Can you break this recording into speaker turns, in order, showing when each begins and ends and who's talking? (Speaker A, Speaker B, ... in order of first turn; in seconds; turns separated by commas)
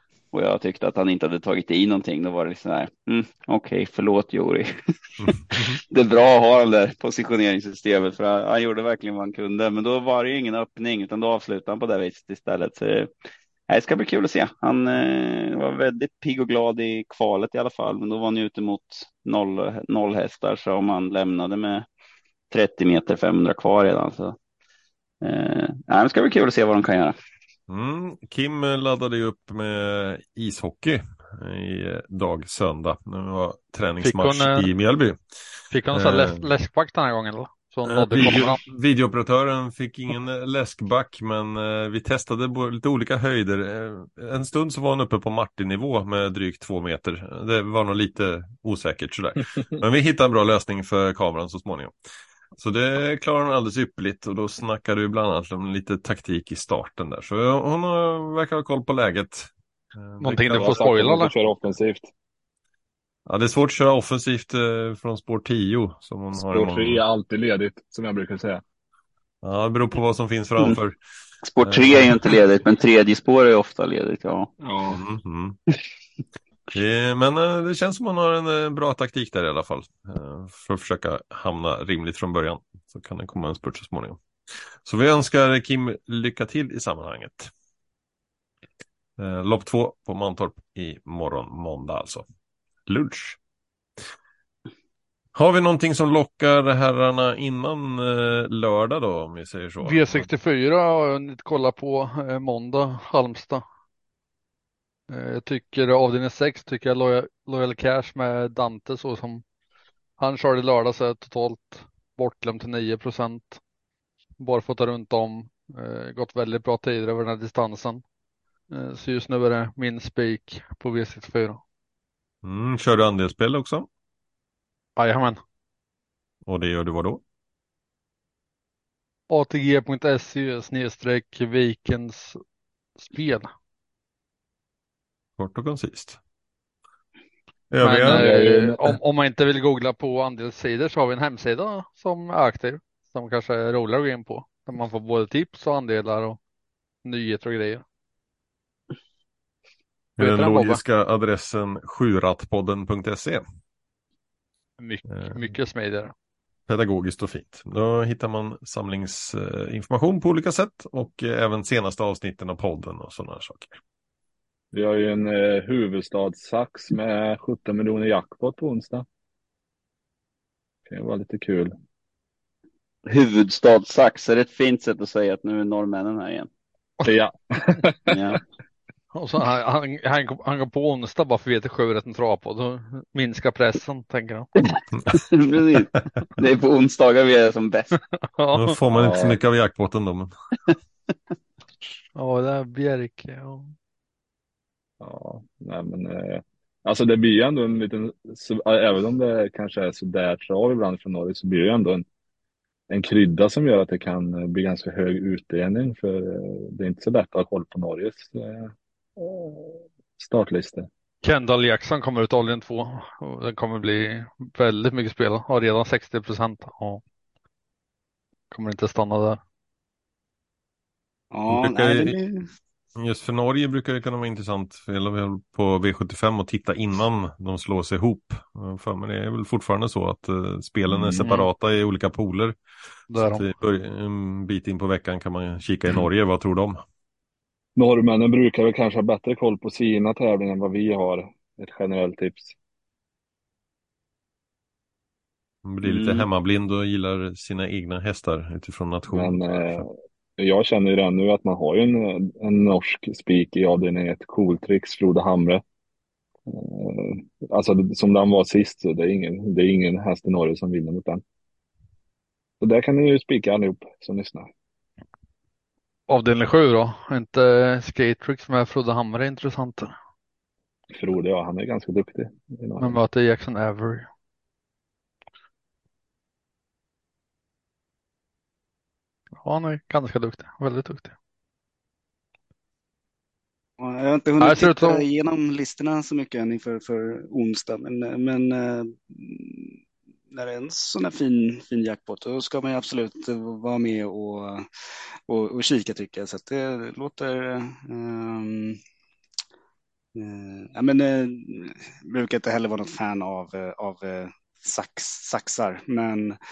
Speaker A: 0.3-13.1, Speaker A: 13.7-21.9, Speaker A: 22.5-24.4, Speaker A: 25.2-27.2, Speaker B: 27.7-35.2, Speaker C: 34.0-34.7, Speaker C: 35.7-38.6, Speaker B: 35.9-36.4, Speaker B: 37.9-51.9, Speaker B: 52.6-60.8, Speaker C: 60.2-61.3, Speaker D: 60.5-62.1, Speaker B: 63.3-67.0, Speaker D: 66.3-68.6, Speaker B: 69.4-71.0, Speaker A: 71.5-74.5, Speaker B: 71.6-72.4, Speaker D: 74.6-75.0, Speaker B: 74.9-75.6, Speaker B: 76.7-84.2, Speaker B: 84.8-87.5, Speaker B: 89.2-92.3, Speaker B: 92.9-93.4, Speaker B: 95.3-100.2, Speaker C: 99.8-103.6, Speaker C: 105.1-109.4, Speaker C: 110.2-113.6, Speaker C: 114.4-118.0, Speaker C: 118.7-121.6, Speaker B: 122.4-123.9, Speaker C: 125.0-125.4, Speaker B: 126.5-127.2, Speaker C: 129.3-132.4, Speaker C: 133.0-133.5, Speaker B: 135.4-136.2, Speaker B: 137.7-138.3, Speaker C: 137.8-146.4, Speaker D: 138.1-139.0, Speaker C: 147.0-147.8, Speaker B: 150.2-153.4, Speaker C: 150.2-150.8, Speaker C: 154.8-156.1, Speaker B: 156.7-163.8, Speaker D: 164.7-169.1, Speaker D: 170.9-171.7, Speaker A: 173.1-176.5, Speaker D: 177.0-178.1, Speaker A: 178.1-178.4, Speaker C: 179.1-184.5, Speaker A: 184.6-188.0, Speaker C: 187.9-188.8, Speaker B: 188.6-190.3, Speaker D: 188.9-189.4, Speaker C: 192.2-193.7, Speaker D: 195.0-202.1, Speaker D: 202.9-210.9, Speaker C: 211.2-217.0, Speaker C: 218.5-219.4, Speaker E: 221.3-222.5, Speaker B: 221.5-222.2, Speaker B: 223.0-232.6, Speaker D: 230.9-231.3, Speaker C: 231.2-231.5, Speaker C: 233.1-233.5, Speaker B: 233.1-236.8, Speaker D: 237.8-242.6, Speaker B: 245.7-249.8, Speaker A: 245.9-246.3, Speaker D: 249.1-255.6, Speaker D: 256.5-261.2, Speaker D: 262.6-264.5, Speaker C: 266.1-269.9, Speaker D: 271.0-272.9, Speaker C: 272.8-274.1, Speaker C: 279.4-281.1, Speaker E: 283.8-289.8, Speaker C: 284.4-285.1, Speaker E: 290.3-294.7, Speaker E: 295.3-298.8, Speaker E: 300.1-306.4